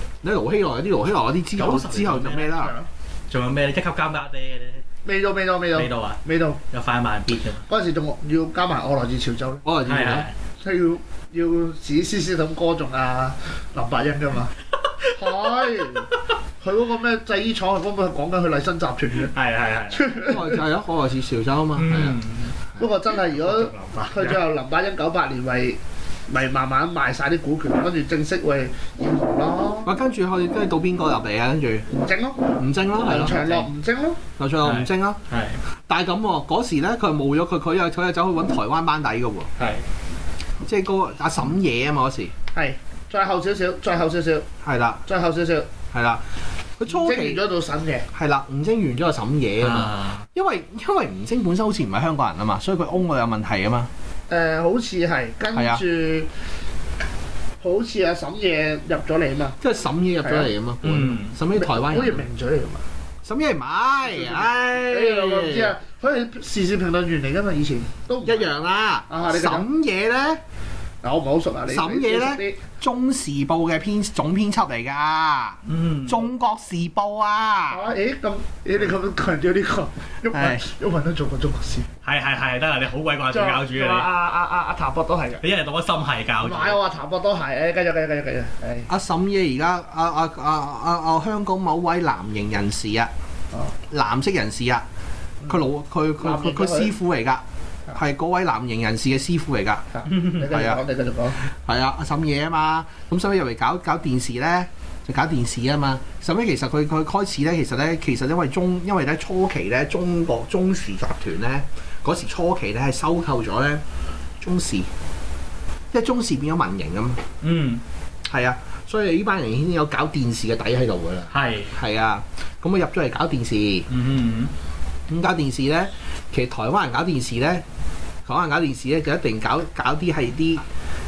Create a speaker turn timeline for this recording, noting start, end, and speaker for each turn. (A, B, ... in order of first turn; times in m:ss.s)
0:00.2-0:02.7 A
0:01.6-0:02.6 B
0:02.6-0:02.9 C
0:03.3-0:04.8 B
0:05.0-0:06.6 C
0:05.7-0:07.6 B
0:07.7-0:09.6 C
0:09.6-0:10.3 A
0:09.8-0:10.3 B
0:10.6-0:14.5 C
0:15.0-0:15.8 B
0:15.1-0:16.1 C
0:16.6-0:19.3 C
0:19.3-0:20.2 B
0:19.9-0:20.6 C
0:20.2-0:22.2 A
0:21.7-0:22.6 B
0:22.8-0:29.9 C
0:23.1-0:24.4 B
0:29.8-0:31.9 A
0:31.9-0:34.2 C
0:32.6-0:33.4 A
0:33.2-0:33.7 B
0:34.4-0:35.2 A
0:34.6-0:35.6 B
0:35.9-0:39.5 A
0:39.6-0:39.8 B
0:40.6-0:42.3 A
0:42.5-0:44.5 C
0:44.6-0:45.0 A
0:45.0-0:45.7 C
0:45.9-0:46.2 A
0:46.8-0:47.4 A
0:46.9-0:48.1 C
0:48.1-0:53.9 A
0:49.6-0:50.2 B
0:54.3-0:56.3 C
0:55.5-0:55.8 A
0:57.6-0:59.6 C
0:59.6-1:02.2 A
1:00.2-1:00.5 C
1:00.8-1:01.4 B
1:01.5-1:02.8 C
1:03.2-1:05.7 A
1:04.0-1:08.5 C
1:08.2-1:10.4 A
1:09.1-1:09.7 C
1:11.0-1:12.6 C
1:11.7-1:17.8 A
1:15.6-1:16.3 B
1:17.7-1:21.9 C
1:20.3-1:20.6 A
1:22.0-1:24.1 B
1:23.3-1:25.4 C
1:25.4-1:26.8 B
1:26.4-1:28.9 C
1:28.9-1:33.1 A
1:33.9-1:34.8 A
1:35.5-1:37.4 A
1:36.2-1:36.9 C
1:37.9-1:39.9 A
1:39.9-1:41.4 C
1:40.5-1:40.8 A
1:41.4-1:53.8 A
1:54.4-1:54.9 A
1:55.9-1:57.2 A
1:57.4-1:57.8 B
1:58.3-2:03.8 A
2:01.3-2:01.7 B
2:03.9-2:04.5 B
2:05.1-2:07.6 A
2:08.2-2:10.6 A